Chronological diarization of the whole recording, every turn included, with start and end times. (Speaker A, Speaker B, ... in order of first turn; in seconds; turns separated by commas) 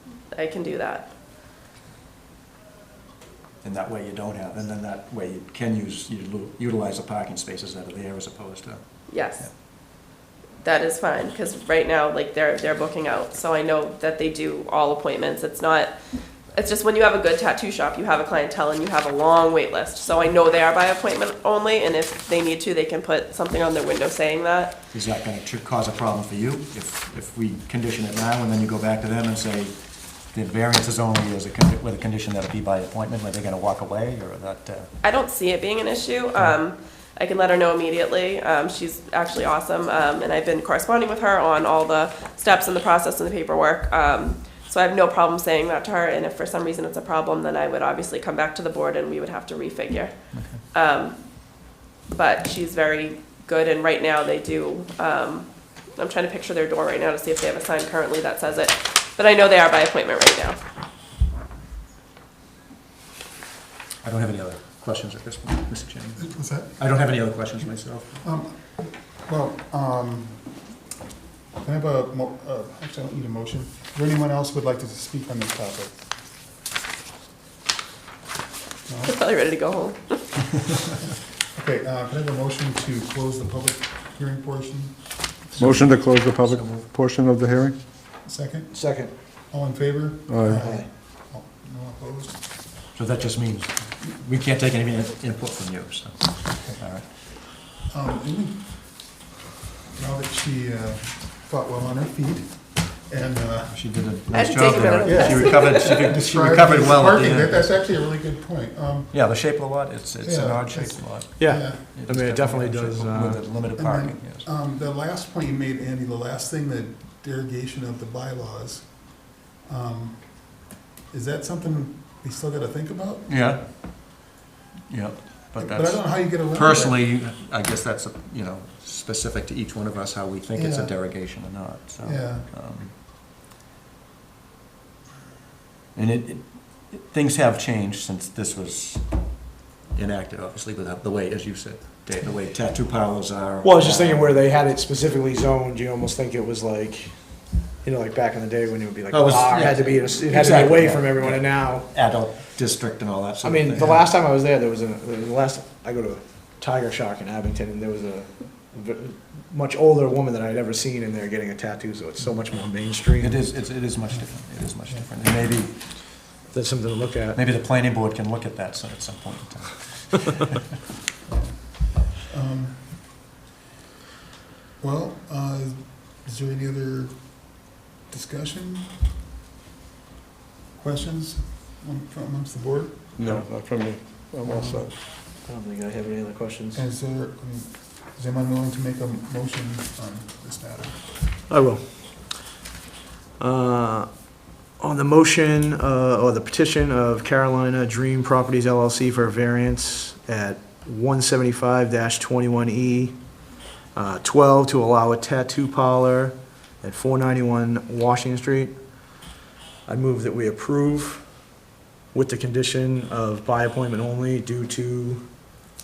Speaker A: 0.3-1.1, Speaker B: 3.6-9.5, Speaker A: 9.1-9.5, Speaker A: 10.6-15.9, Speaker A: 16.5-24.8, Speaker B: 24.9-29.8, Speaker B: 30.3-34.9, Speaker A: 35.0-60.6, Speaker B: 50.3-50.6, Speaker B: 64.0-68.2, Speaker C: 66.2-66.8, Speaker C: 68.2-70.6, Speaker C: 71.6-76.0, Speaker C: 78.9-79.3, Speaker A: 79.1-80.3, Speaker C: 81.1-85.5, Speaker B: 85.5-86.9, Speaker D: 85.6-87.8, Speaker C: 88.2-88.7, Speaker E: 88.7-89.1, Speaker C: 89.5-92.4, Speaker D: 90.3-90.7, Speaker E: 90.6-90.9, Speaker B: 92.9-97.1, Speaker C: 97.9-99.2, Speaker C: 99.9-103.8, Speaker B: 103.7-107.8, Speaker A: 104.3-106.0, Speaker C: 105.0-109.4, Speaker B: 109.1-114.5, Speaker C: 110.2-111.9, Speaker E: 111.4-113.6, Speaker C: 113.8-123.5, Speaker B: 123.3-124.0, Speaker B: 124.9-132.9, Speaker C: 125.6-127.0, Speaker C: 130.6-131.3, Speaker C: 132.0-132.5, Speaker B: 135.9-144.4, Speaker E: 143.6-151.9, Speaker B: 149.1-154.1, Speaker E: 153.4-163.6, Speaker B: 163.2-166.1, Speaker E: 166.5-167.4, Speaker B: 167.3-170.6, Speaker C: 171.3-173.2, Speaker C: 174.8-179.1, Speaker C: 180.8-183.2, Speaker D: 183.2-184.9, Speaker E: 183.2-183.5, Speaker C: 184.4-184.9, Speaker E: 184.7-186.8, Speaker C: 186.7-191.1, Speaker E: 191.5-192.4, Speaker E: 193.4-203.2, Speaker E: 203.9-209.2, Speaker E: 209.9-211.6, Speaker E: 212.1-215.2